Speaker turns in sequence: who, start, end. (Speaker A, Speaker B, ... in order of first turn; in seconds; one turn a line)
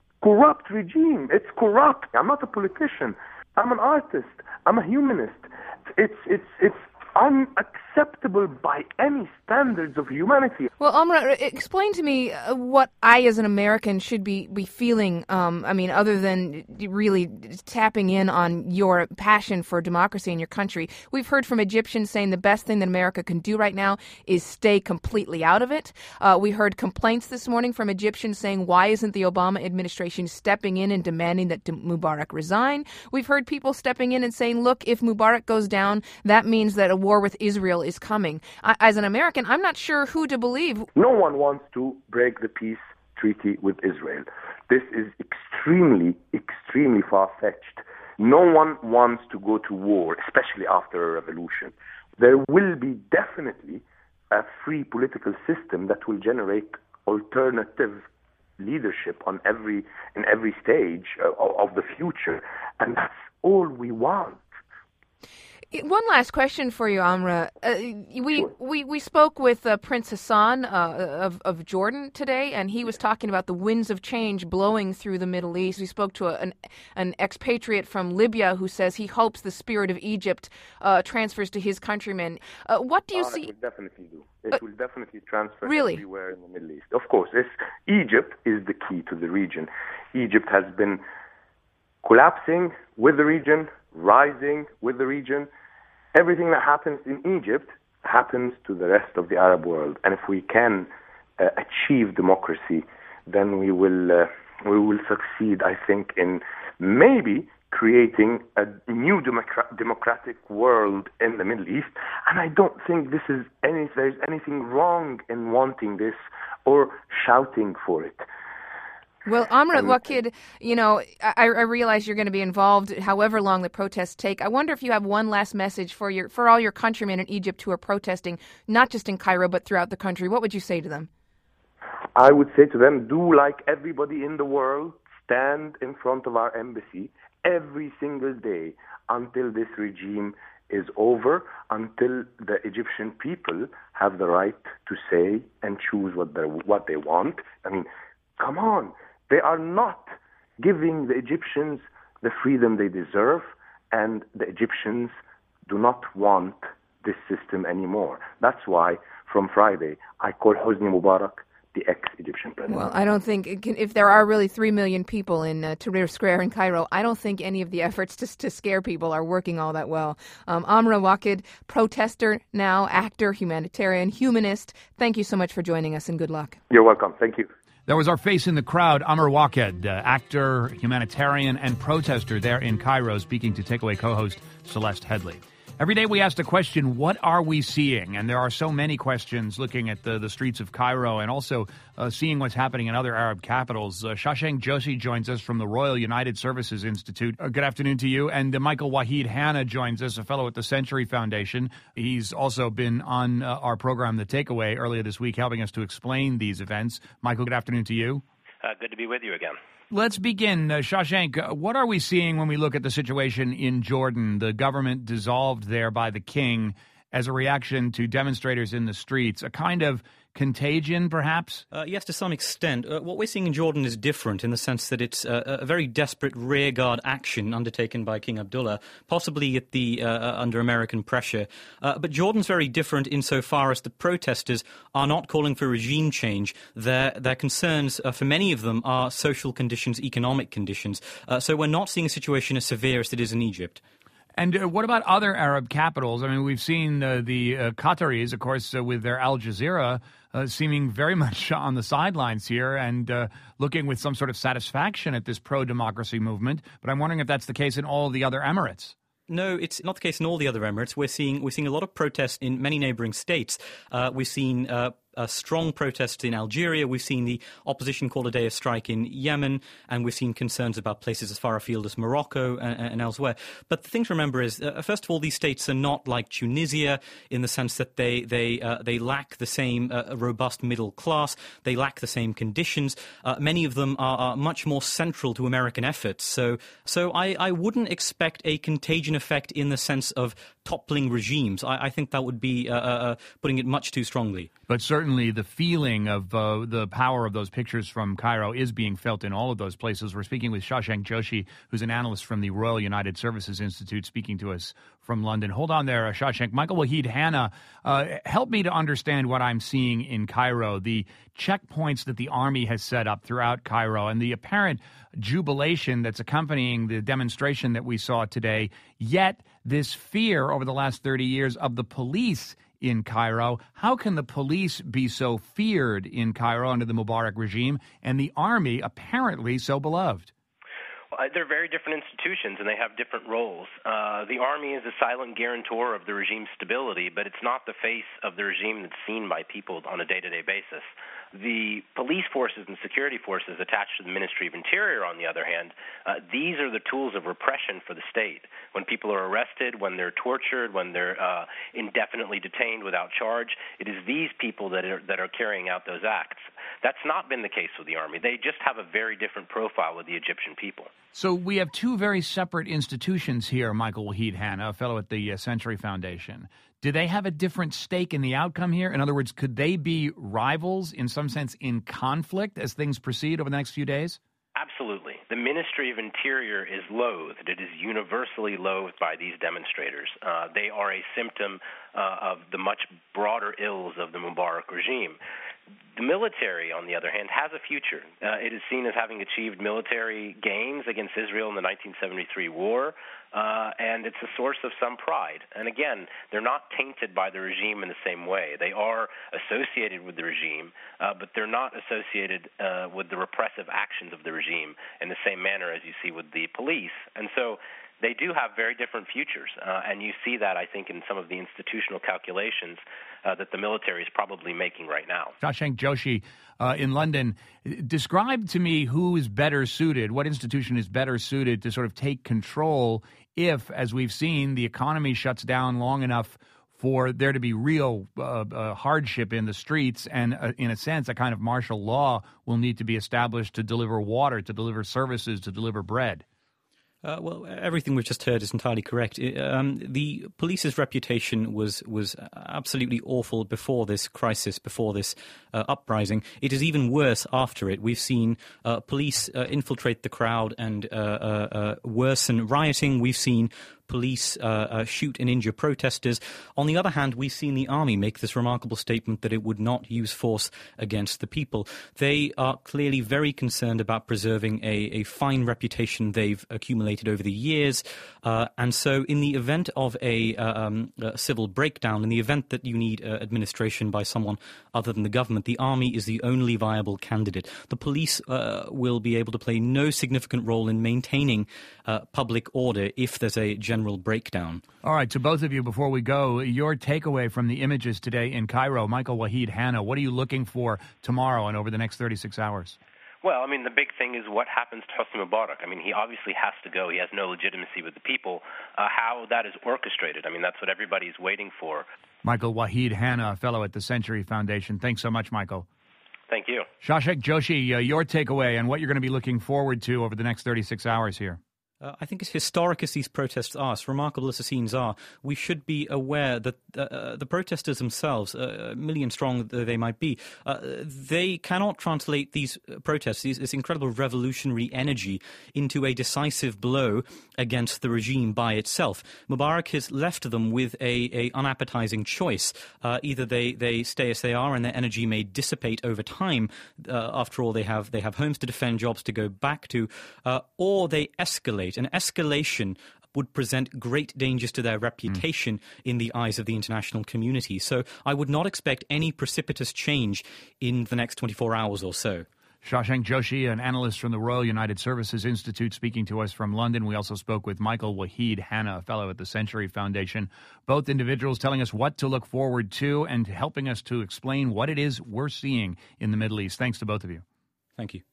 Speaker A: 0.2-10.7
Speaker B: 10.8-40.9
Speaker A: 40.9-58.0
Speaker A: 58.6-64.4
Speaker B: 65.7-83.5
Speaker A: 83.1-91.0
Speaker B: 85.7-86.0
Speaker A: 92.0-95.5
Speaker A: 96.1-118.3
Speaker B: 119.2-131.1
Speaker A: 132.1-155.1
Speaker A: 155.7-162.9
Speaker B: 162.7-176.6
Speaker A: 176.7-177.5
Speaker C: 177.9-208.2
Speaker D: 208.6-209.6
Speaker C: 209.9-221.6
Speaker E: 221.7-243.8
Speaker C: 244.4-258.9
Speaker E: 259.3-294.5
Speaker C: 294.7-330.3
Speaker D: 331.1-360.9
Speaker C: 361.1-374.2
Speaker D: 374.5-385.2
Speaker D: 385.9-415.4
Speaker C: 415.4-436.2
Speaker E: 437.0-484.6
Speaker C: 484.8-492.8
Speaker D: 493.2-501.9
Speaker C: 502.2-505.6
Speaker D: 506.3-506.7
Speaker C: 506.8-511.4
Speaker E: 511.8-552.2
Speaker C: 552.6-567.2
Speaker E: 567.8-568.0